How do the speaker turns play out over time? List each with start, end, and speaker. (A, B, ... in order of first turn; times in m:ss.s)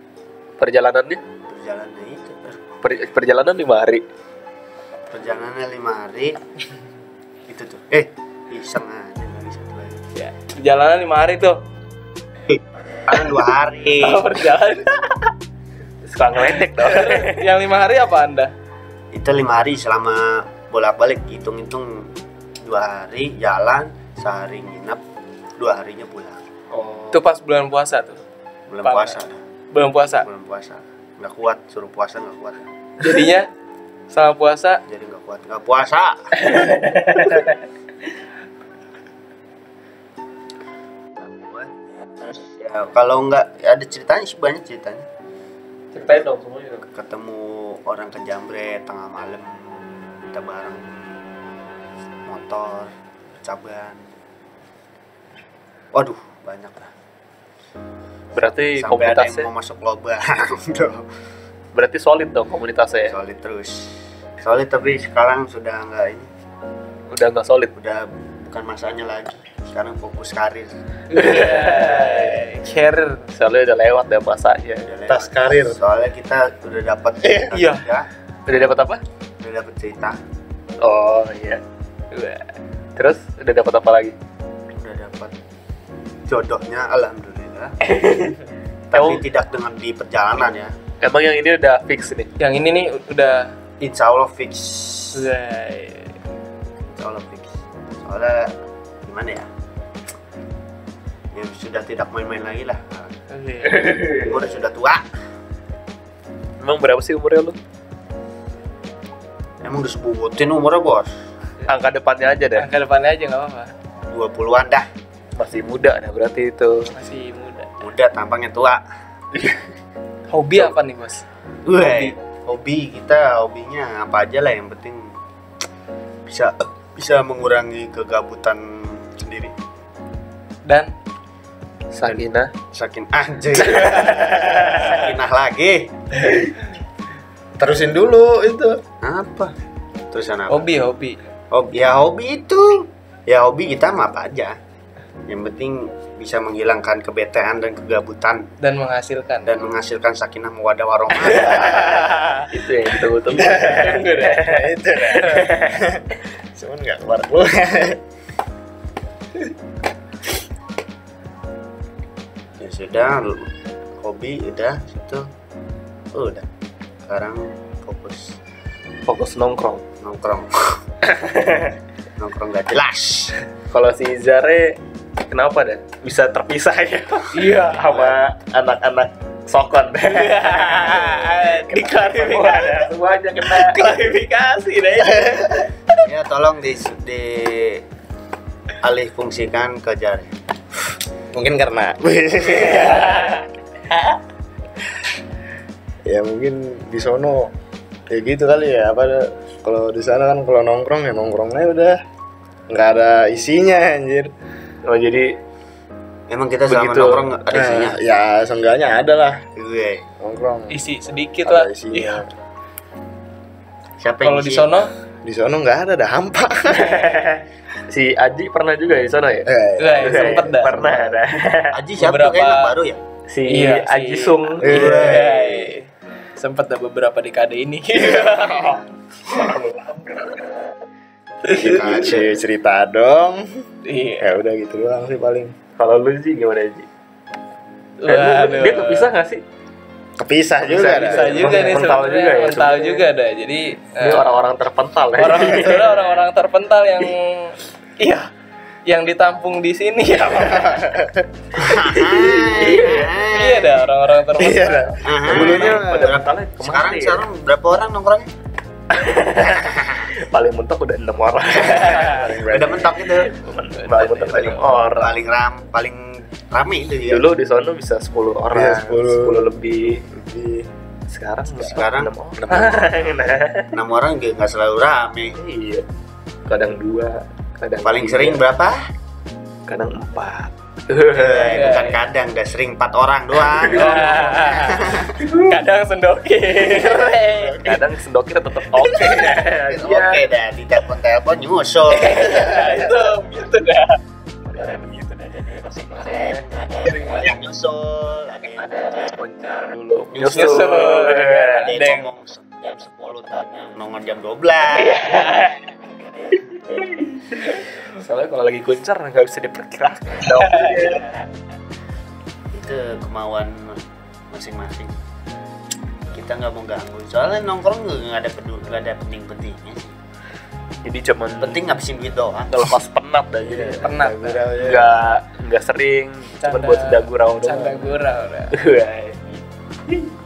0:00.6-0:01.2 A
0:01.5-0:02.6 B
0:02.8-0:04.0 A
0:05.1-0:06.4 B
0:07.5-0:10.0 B
0:10.2-0:11.6 C
0:13.0-0:14.2 B
0:14.0-0:15.2 C
0:16.0-0:17.4 A
0:16.6-0:18.5 C
0:19.1-0:25.0 B
0:25.6-0:26.4 B
0:26.7-0:27.2 A
0:27.1-0:28.2 C
0:28.7-0:29.4 B
0:28.8-0:29.2 C
0:29.7-0:30.3 C
0:30.2-0:32.7 B
0:33.0-0:33.5 C
0:34.1-0:34.8 C
0:34.9-0:36.4 B
0:36.7-0:37.5 A
0:41.2-0:41.7 B
0:42.2-0:45.1 B
0:45.9-0:46.8 A
0:46.9-0:49.8 B
0:50.3-0:51.0 B
0:52.3-0:54.1 B
0:55.9-0:56.9 B
0:58.3-0:59.5 A
0:58.8-1:01.0 B
1:01.7-1:03.1 A
1:03.1-1:06.3 B
1:07.1-1:07.7 A
1:07.8-1:10.7 B
1:11.1-1:13.3 C
1:11.1-1:12.5 A
1:13.3-1:14.9 A
1:14.8-1:18.1 B
1:15.1-1:15.8 D
1:17.2-1:17.8 C
1:18.5-1:19.0 A
1:19.4-1:20.2 B
1:20.8-1:21.6 A
1:22.1-1:22.5 C
1:23.0-1:24.1 A
1:24.7-1:25.3 B
1:26.3-1:27.8 B
1:27.8-1:28.4 A
1:28.9-1:30.7 B
1:28.9-1:29.2 A
1:31.0-1:32.3 A
1:32.4-1:33.5 C
1:33.8-1:35.3 B
1:35.1-1:36.1 C
1:37.0-1:39.5 B
1:41.3-1:43.2 B
1:43.3-1:44.0 C
1:43.7-1:44.3 A
1:44.0-1:45.0 B
1:46.6-1:47.6 A
1:49.6-1:51.1 B
1:51.7-1:52.7 A
1:52.6-1:53.7 C
1:54.1-1:54.9 B
1:55.4-1:56.9 A
1:56.9-1:57.7 C
1:57.8-1:58.8 B
2:00.3-2:01.2 C
2:01.6-2:05.1 B
2:01.8-2:02.1 C
2:06.3-2:09.5 B
2:10.6-2:10.9 C
2:11.9-2:12.5 A
2:12.7-2:15.9 B
2:17.6-2:18.8 D
2:19.0-2:19.5 B
2:20.1-2:20.6 B
2:20.5-2:21.2 C
2:21.5-2:24.6 B
2:25.3-2:28.5 B
2:28.6-2:29.5 C
2:29.4-2:32.2 B
2:31.3-2:32.5 C
2:32.5-2:35.7 A
2:33.3-2:35.5 C
2:34.3-2:38.0 D
2:42.6-2:45.3 B
2:46.1-2:46.5 B
2:47.0-2:48.4 B
2:49.0-2:49.8 A
2:50.0-2:50.8 B
2:51.0-2:51.8 A
2:52.2-2:53.4 B
2:53.7-2:54.8 A
2:55.3-3:04.0 A
2:57.3-2:58.0 C
3:00.1-3:05.7 C
3:05.1-3:05.4 D
3:06.0-3:07.8 B
3:08.8-3:10.3 B
3:11.3-3:13.3 D
3:12.8-3:13.4 C
3:16.0-3:17.5 D
3:18.1-3:22.0 D
3:22.7-3:24.3 D
3:24.8-3:25.3 A
3:26.3-3:28.0 B
3:26.7-3:27.3 A
3:27.5-3:29.4 D
3:29.6-3:30.0 B
3:30.2-3:30.8 D
3:30.7-3:32.2 C
3:31.4-3:32.3 D
3:34.0-3:34.8 B
3:34.2-3:34.9 C
3:35.2-3:37.0 D
3:36.7-3:41.8 A
3:39.4-3:41.0 D
3:39.8-3:40.9 C
3:41.7-3:43.0 B
3:42.0-3:42.7 C
3:43.3-3:45.0 A
3:43.4-3:48.8 C
3:44.6-3:45.4 D
3:44.6-3:45.6 B
3:49.3-3:50.1 A
3:51.5-3:53.6 D
3:51.5-3:52.3 B
3:51.5-3:51.9 C
3:53.8-3:54.3 C
3:54.2-3:55.5 D
3:55.8-3:56.9 A
3:58.0-3:59.1 C
3:58.1-3:59.4 A
4:00.2-4:01.7 D
4:00.7-4:04.3 C
4:00.9-4:03.0 A
4:04.0-4:06.2 A
4:05.2-4:08.3 C
4:08.9-4:11.1 C
4:10.9-4:11.2 D
4:11.6-4:13.8 B
4:11.8-4:12.5 D
4:12.4-4:13.2 A
4:13.3-4:15.0 C
4:14.4-4:16.2 D
4:15.0-4:18.3 B
4:15.2-4:17.2 A
4:18.9-4:22.4 A
4:19.4-4:20.1 B
4:21.6-4:22.2 C
4:22.0-4:22.9 D
4:22.4-4:23.3 B
4:23.0-4:25.2 A
4:23.7-4:24.5 C
4:24.2-4:27.2 B
4:27.1-4:30.0 A
4:28.5-4:29.5 D
4:30.1-4:30.6 D
4:31.1-4:33.7 A
4:31.6-4:35.4 B
4:35.4-4:35.8 A
4:36.5-4:38.4 A
4:37.8-4:38.9 B
4:39.7-4:41.8 A
4:41.1-4:45.2 B
4:41.4-4:42.0 C
4:43.7-4:47.8 C
4:46.7-4:50.2 A
4:49.2-4:52.7 B
4:51.9-4:54.0 C
4:54.5-4:55.4 A
4:56.0-4:56.4 A
4:56.7-4:59.1 B
4:59.0-5:01.8 A
5:00.1-5:05.3 B
5:00.2-5:02.1 C
5:04.8-5:05.5 A
5:06.7-5:11.2 A
5:10.4-5:10.9 C
5:12.5-5:15.0 B
5:16.1-5:20.0 B
5:20.8-5:21.6 A
5:21.4-5:22.7 B
5:22.5-5:23.8 A
5:23.4-5:25.1 D
5:23.8-5:24.5 C
5:24.5-5:28.0 A
5:26.4-5:28.6 C
5:28.5-5:29.3 A